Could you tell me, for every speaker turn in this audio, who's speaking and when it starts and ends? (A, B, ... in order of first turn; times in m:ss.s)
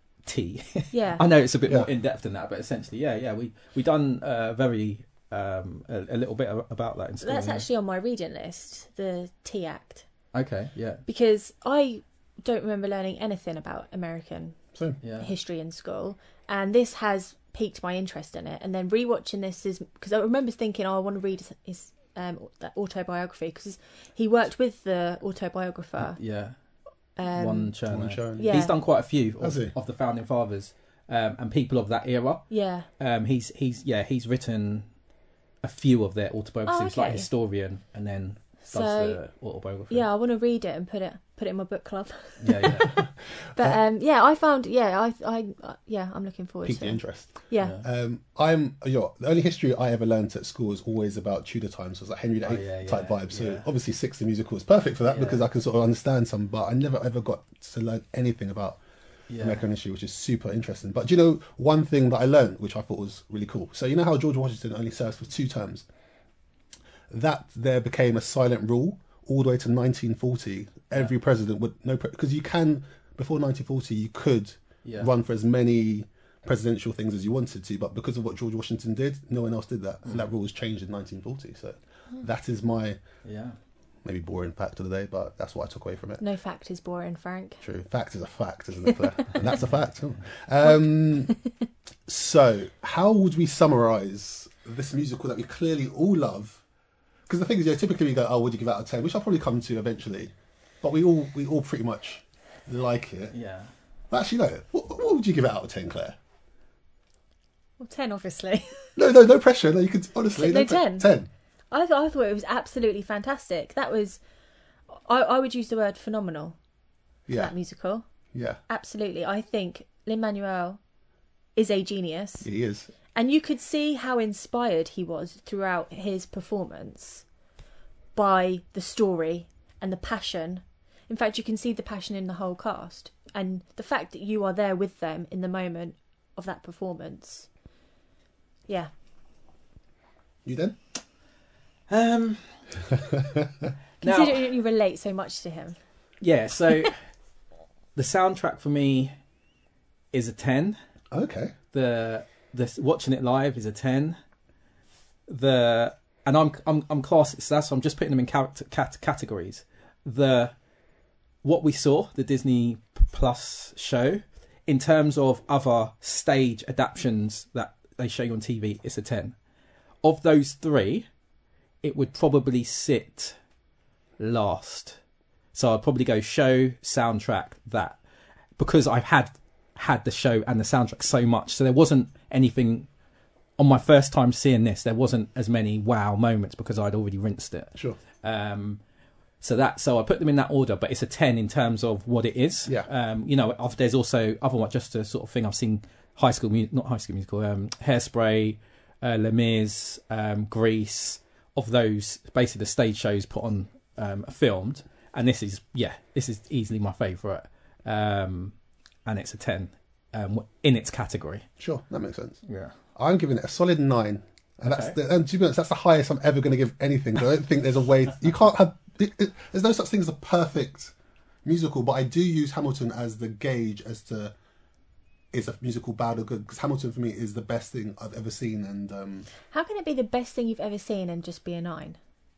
0:00.2-0:07.6 A
0:00.9-0:01.2 B
0:07.2-0:10.0 B
0:10.3-0:11.0 A
0:11.1-0:14.6 B
0:15.0-0:15.3 A
0:15.2-0:26.2 B
0:26.0-0:26.5 A
0:27.2-0:27.7 B
0:27.3-0:32.4 A
0:27.9-0:28.6 C
0:28.4-0:28.7 B
0:29.4-0:29.7 C
0:32.5-0:32.9 B
0:33.0-0:34.8 A
0:35.6-0:40.1 A
0:36.7-0:37.3 B
0:38.7-0:39.2 B
0:39.9-0:47.8 B
0:42.4-0:43.0 A
0:46.6-0:58.8 C
0:52.4-0:53.6 A
0:55.0-0:55.4 A
0:59.3-0:59.6 A
0:59.4-1:05.8 C
1:07.1-1:23.0 C
1:14.8-1:15.1 A
1:23.2-1:23.6 A
1:24.0-1:26.2 C
1:26.2-1:27.6 B
1:27.6-1:31.3 C
1:29.4-1:29.8 A
1:32.1-1:36.6 C
1:37.3-1:43.3 C
1:43.3-1:43.7 A
1:44.1-1:46.2 C
1:47.8-1:48.9 B
1:49.0-1:51.3 C
1:50.4-1:51.1 B
1:51.7-1:54.2 B
1:54.9-1:56.6 B
1:57.3-1:57.5 C
1:57.3-1:58.0 B
1:58.3-1:58.6 C
1:58.7-2:00.8 B
2:01.6-2:02.5 B
2:02.4-2:02.9 C
2:03.1-2:07.2 B
2:08.1-2:17.5 B
2:20.4-2:20.8 C
2:21.9-2:22.6 A
2:24.0-2:24.4 A
2:24.0-2:25.8 B
2:26.2-2:27.0 A
2:28.0-2:29.1 A
2:30.1-2:30.8 A
2:31.1-2:31.5 C
2:31.7-2:34.2 A
2:35.3-2:40.5 A
2:41.4-2:49.3 A
2:50.0-2:51.1 A
2:51.8-2:53.4 A
2:54.2-2:55.0 A
2:55.5-2:58.0 A
2:58.6-3:02.9 A
3:03.6-3:08.8 A
3:09.4-3:28.5 A
3:29.0-3:31.4 A
3:31.6-3:32.4 C
3:32.5-3:32.7 A
3:33.0-3:40.9 C
3:34.6-3:35.0 A
3:41.4-3:44.3 C
3:45.3-3:49.3 C
3:49.5-3:52.0 B